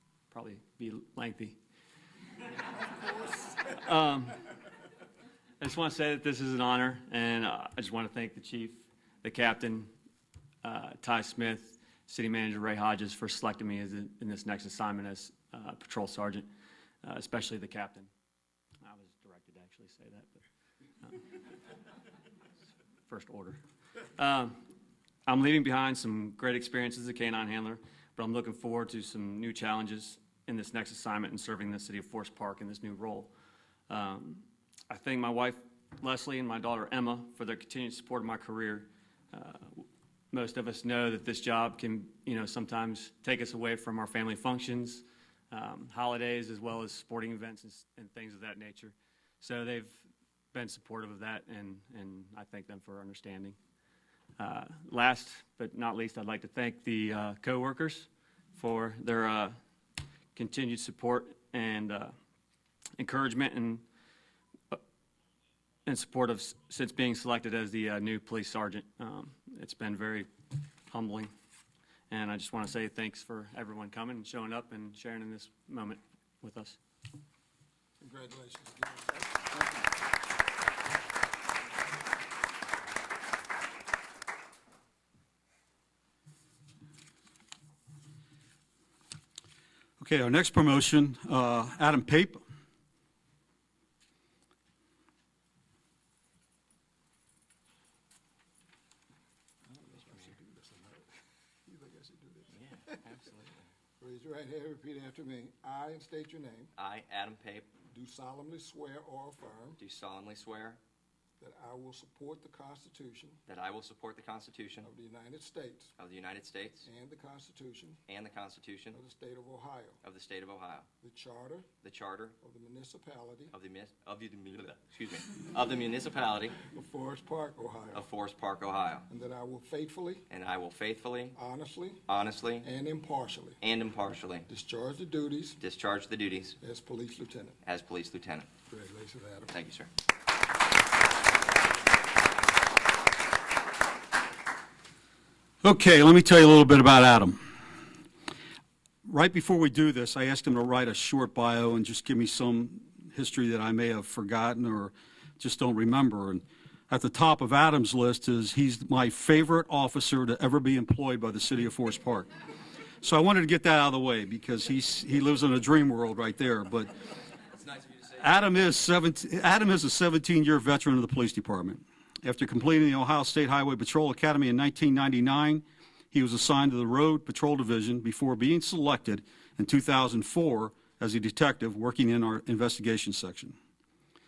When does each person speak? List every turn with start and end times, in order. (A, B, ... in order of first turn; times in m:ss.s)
0:00.3-0:01.6 A
0:03.6-0:04.5 A
0:05.6-0:09.9 A
0:10.6-0:16.5 A
0:17.0-0:18.1 A
0:18.8-0:20.4 A
0:23.1-0:23.6 A
0:24.2-0:24.6 A
0:25.3-0:33.3 A
0:33.9-0:53.6 A
0:54.4-0:59.6 A
1:00.4-1:02.2 A
1:03.0-1:03.8 A
1:05.9-1:10.3 A
1:10.9-1:11.3 A
1:12.1-1:16.8 A
1:18.0-1:19.3 B
1:30.0-1:32.4 C
1:39.7-1:43.1 B
1:42.5-1:43.6 D
1:44.0-1:46.7 B
1:46.8-1:47.7 D
1:47.9-1:49.8 B
1:49.8-1:50.8 D
1:51.4-1:53.4 B
1:53.5-1:54.9 D
1:54.8-1:55.9 B
1:56.0-1:56.9 D
1:56.8-1:58.0 B
1:58.1-1:59.0 D
1:58.9-2:00.0 B
2:00.0-2:00.9 D
2:01.0-2:01.7 B
2:01.8-2:02.4 D
2:02.4-2:03.6 B
2:03.5-2:06.6 D
2:06.6-2:08.1 B
2:07.9-2:09.1 D
2:09.1-2:10.3 B
2:10.3-2:11.4 D
2:11.3-2:12.1 B
2:12.1-2:12.7 D
2:12.6-2:13.6 B
2:13.6-2:14.5 D
2:14.5-2:15.6 B
2:15.6-2:16.6 D
2:16.6-2:17.6 B
2:17.6-2:18.5 D
2:18.7-2:19.6 B
2:19.5-2:19.9 D
2:25.6-2:27.4 C
2:29.0-2:42.3 C
2:43.0-2:47.0 C
2:47.5-2:48.2 D
2:48.1-3:03.6 C